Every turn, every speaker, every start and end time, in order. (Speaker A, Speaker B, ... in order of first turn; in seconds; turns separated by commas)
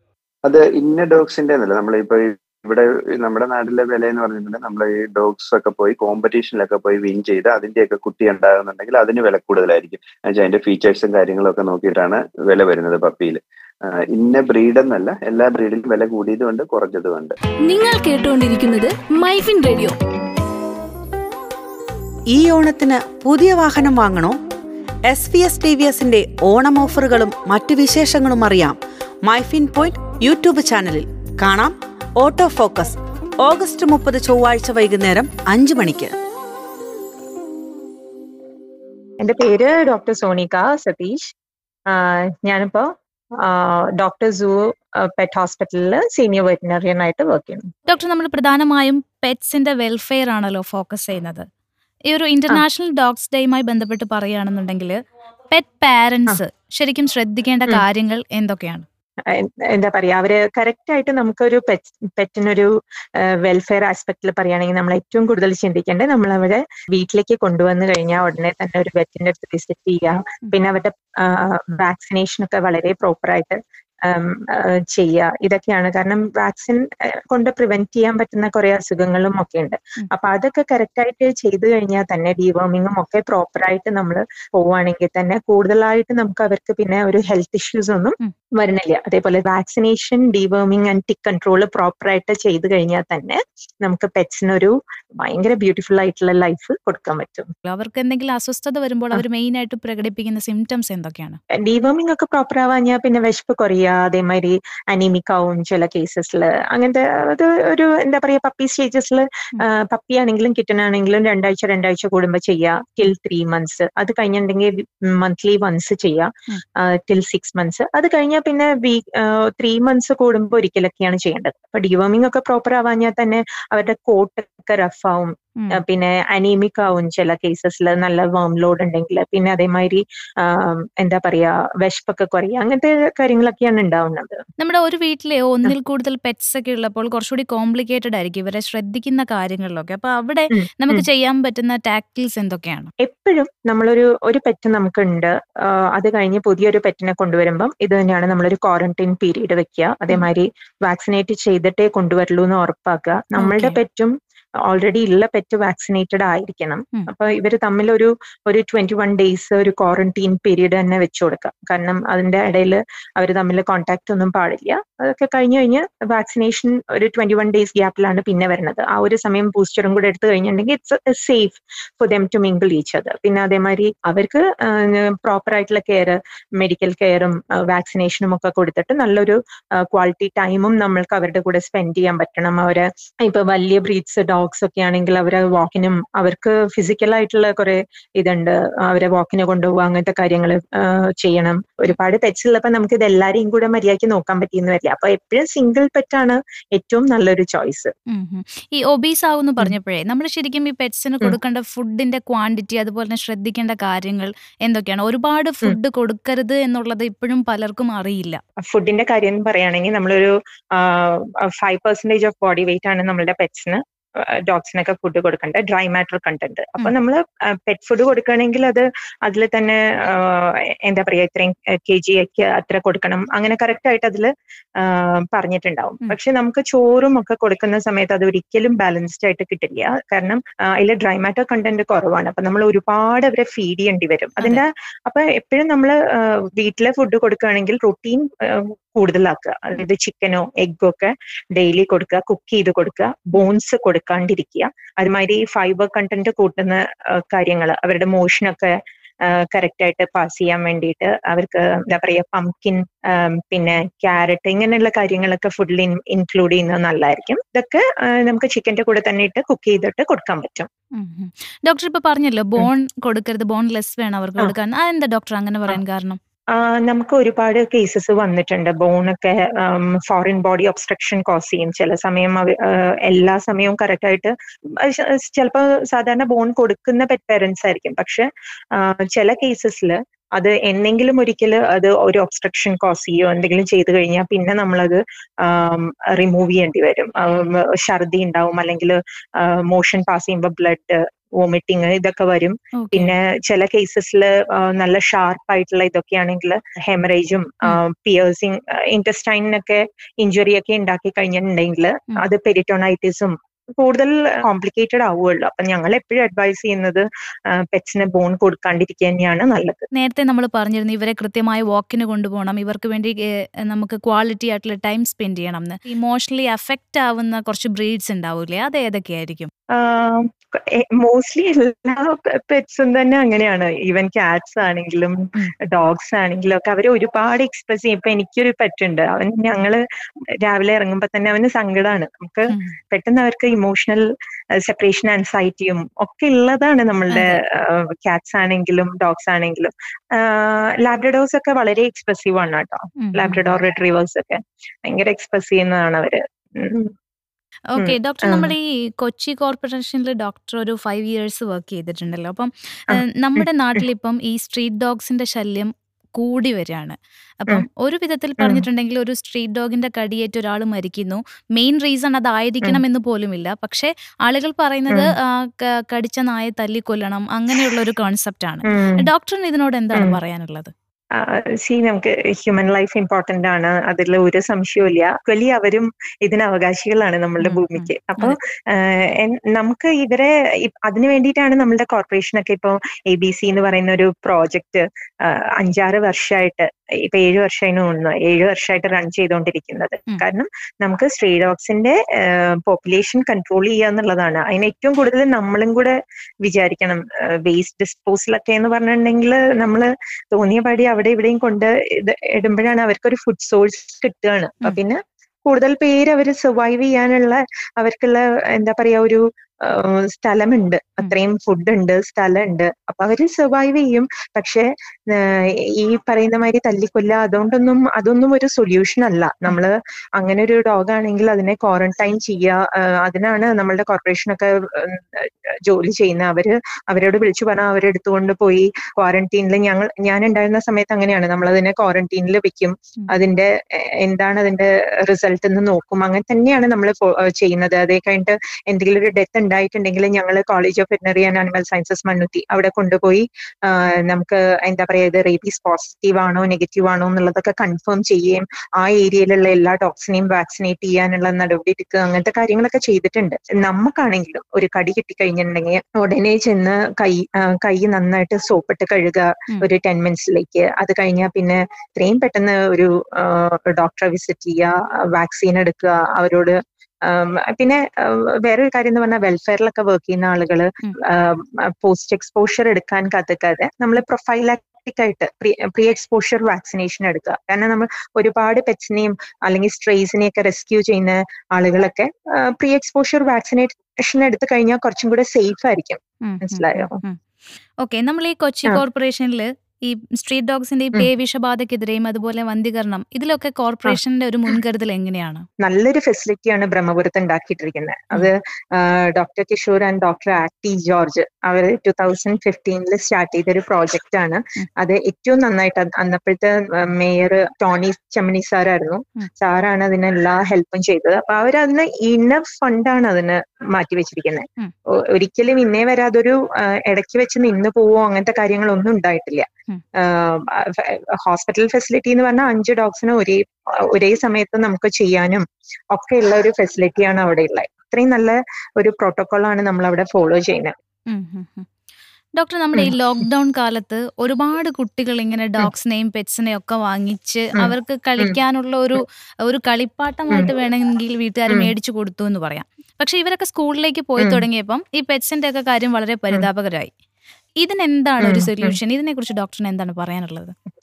Speaker A: 0.4-17.3, Speaker B: 17.7-19.9, Speaker C: 22.3-24.4, Speaker C: 25.1-36.1, Speaker D: 39.2-41.3, Speaker D: 41.9-42.9, Speaker D: 43.4-47.6, Speaker E: 47.9-51.5, Speaker E: 52.1-55.0, Speaker E: 55.5-58.9, Speaker D: 59.3-62.7, Speaker D: 63.3-97.5, Speaker E: 97.7-101.4, Speaker D: 101.6-134.4, Speaker E: 134.6-142.9, Speaker D: 140.5-141.0, Speaker D: 143.0-145.3, Speaker D: 145.9-154.1, Speaker E: 153.4-153.8, Speaker D: 154.7-197.9, Speaker E: 198.1-208.4, Speaker D: 208.6-260.7, Speaker E: 261.0-266.2, Speaker D: 266.5-309.9, Speaker E: 292.7-293.1, Speaker E: 309.9-319.5, Speaker D: 319.7-329.8, Speaker D: 330.4-346.9, Speaker E: 332.5-332.8, Speaker E: 337.1-337.4, Speaker E: 343.0-343.4, Speaker E: 347.7-370.7, Speaker D: 347.8-348.5, Speaker D: 352.9-353.8, Speaker D: 358.4-358.6, Speaker D: 368.6-369.1, Speaker D: 371.1-433.5, Speaker E: 377.4-378.4, Speaker D: 434.0-487.0, Speaker E: 486.2-487.2, Speaker E: 487.8-495.4, Speaker D: 495.6-514.5, Speaker D: 515.1-530.7, Speaker E: 531.1-531.7, Speaker E: 532.4-546.9, Speaker D: 537.5-538.3, Speaker D: 544.2-544.4, Speaker E: 547.6-550.5, Speaker D: 548.2-548.8